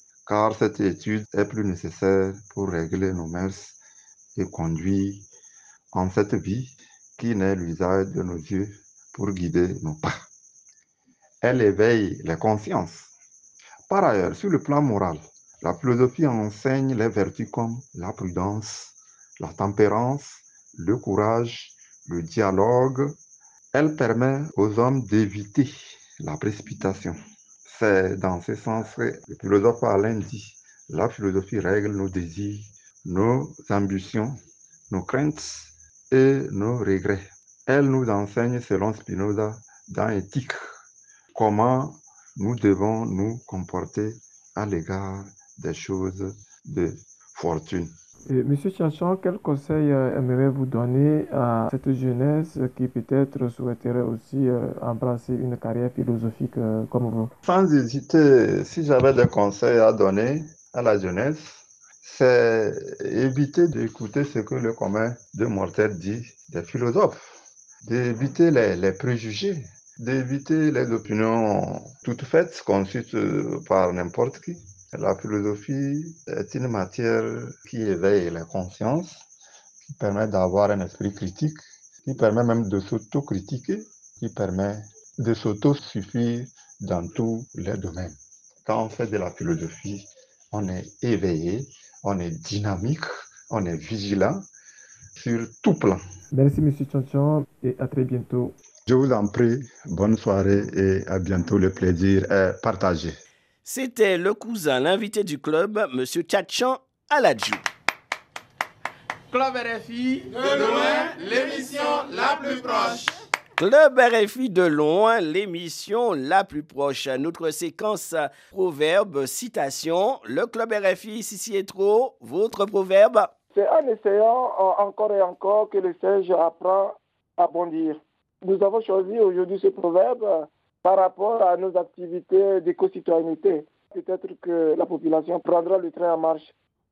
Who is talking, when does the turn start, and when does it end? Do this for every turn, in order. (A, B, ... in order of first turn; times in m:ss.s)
0:00.2-0:03.8 A
0:04.4-0:05.3 A
0:05.9-0:10.2 A
0:11.4-0:13.1 A
0:13.9-0:23.1 A
0:23.7-0:34.3 A
0:34.9-0:40.6 A
0:41.3-0:47.9 A
0:48.3-0:57.3 B
0:57.4-1:19.2 A
1:19.8-1:34.4 A
1:35.2-1:36.0 A
1:36.4-1:38.5 B
1:38.9-1:43.2 A
1:43.6-1:47.6 C
1:49.3-1:53.1 D
1:53.6-2:03.3 C
2:03.5-2:16.5 E